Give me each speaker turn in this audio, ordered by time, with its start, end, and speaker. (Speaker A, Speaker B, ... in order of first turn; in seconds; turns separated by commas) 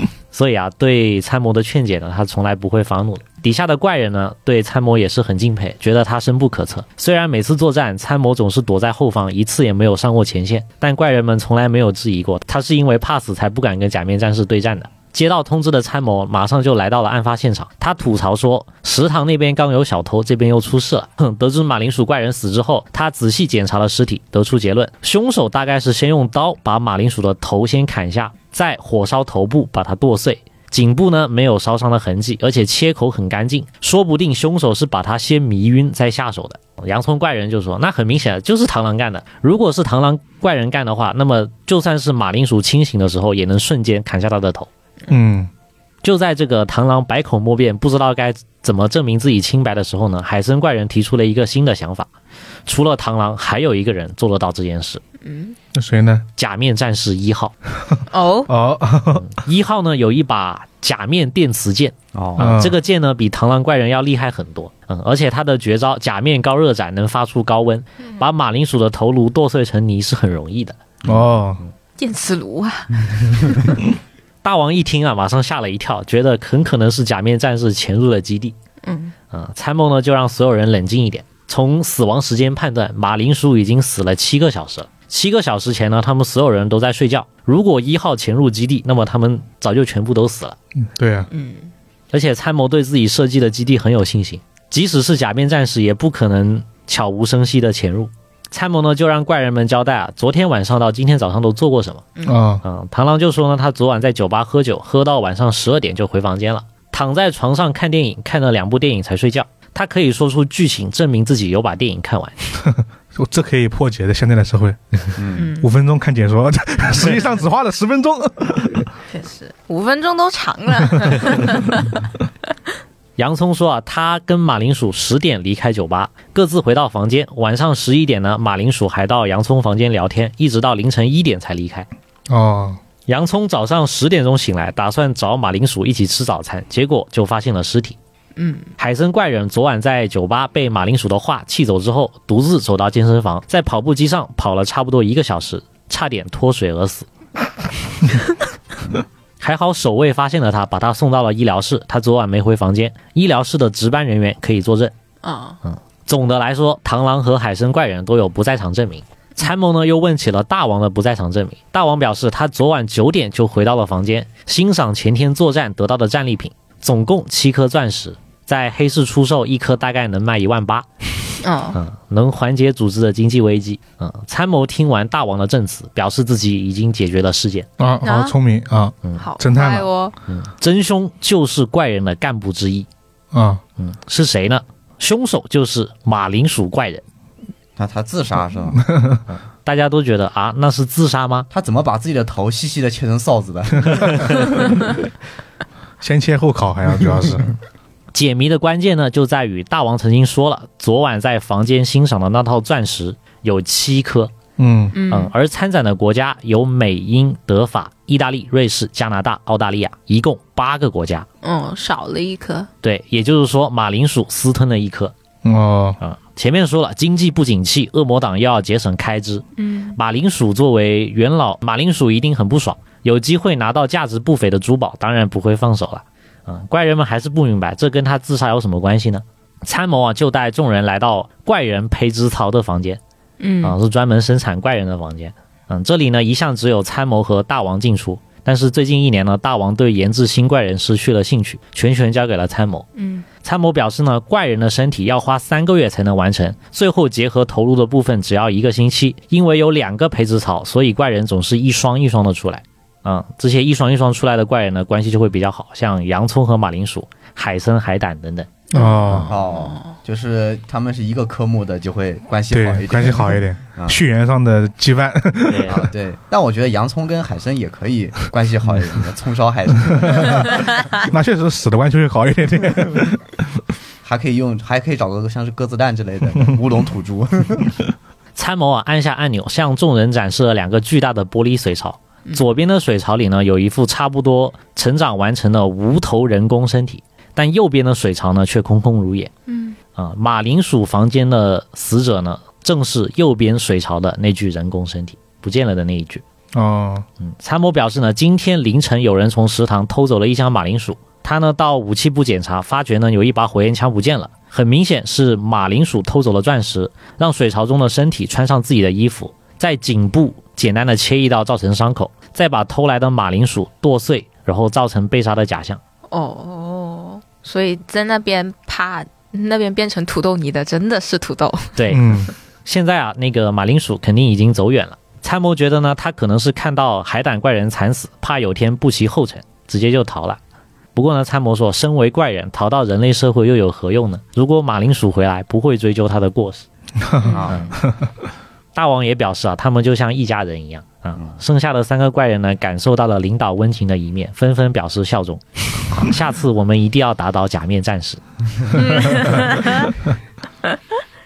Speaker A: 0.3-44.7, Speaker B: 45.1-45.5, Speaker A: 46.0-52.1, Speaker A: 52.6-55.0, Speaker C: 55.2-55.5, Speaker B: 55.7-56.2, Speaker A: 56.4-57.5, Speaker B: 57.8-59.3, Speaker C: 58.1-58.5, Speaker A: 59.2-70.8, Speaker D: 62.1-62.6, Speaker B: 62.4-62.7, Speaker B: 71.0-71.6, Speaker C: 72.0-73.8, Speaker A: 74.4-78.5, Speaker C: 78.8-79.1, Speaker A: 79.3-90.6, Speaker B: 90.8-91.3, Speaker C: 91.3-91.7, Speaker A: 92.1-102.0, Speaker B: 102.2-102.6, Speaker A: 102.6-112.3, Speaker B: 112.6-118.9, Speaker D: 115.2-115.5, Speaker C: 115.3-115.7, Speaker C: 119.1-121.9, Speaker A: 123.2-131.9, Speaker B: 132.3-132.8, Speaker A: 133.1-137.9, Speaker C: 138.3-138.7, Speaker A: 138.8-147.1, Speaker A: 149.4-154.9, Speaker C: 155.2-155.6, Speaker A: 155.6-170.8, Speaker C: 171.4-171.8, Speaker A: 171.7-177.7, Speaker B: 177.8-179.9, Speaker C: 178.0-178.3, Speaker C: 179.2-180.2, Speaker A: 180.3-182.9, Speaker B: 183.3-183.6, Speaker A: 183.8-187.0, Speaker D: 187.8-188.8, Speaker B: 188.8-189.2, Speaker A: 189.3-191.5, Speaker D: 191.5-194.8, Speaker B: 196.0-197.5, Speaker A: 198.1-204.3, Speaker B: 204.6-204.9, Speaker C: 204.9-205.3, Speaker A: 205.1-211.2, Speaker C: 211.4-212.7, Speaker A: 212.8-215.1, Speaker B: 215.4-216.0, Speaker A: 216.0-219.4, Speaker C: 219.6-220.0, Speaker A: 219.9-233.0, Speaker C: 233.4-233.8, Speaker A: 233.6-242.8, Speaker C: 242.9-243.2, Speaker A: 243.4-258.5, Speaker B: 258.7-259.3, Speaker C: 258.7-259.9, Speaker D: 259.2-264.0, Speaker B: 262.5-265.9, Speaker A: 265.5-265.8, Speaker D: 265.7-270.7, Speaker B: 270.0-273.6, Speaker D: 274.0-277.8, Speaker A: 278.4-289.3, Speaker C: 289.5-289.8, Speaker A: 289.9-296.2, Speaker B: 296.5-297.1, Speaker A: 297.2-315.8, Speaker C: 316.1-321.8, Speaker A: 321.8-330.4, Speaker B: 321.9-322.3, Speaker A: 330.9-336.6, Speaker B: 337.0-338.1, Speaker C: 337.2-337.5, Speaker D: 337.3-337.7, Speaker A: 338.7-348.2, Speaker C: 348.7-349.9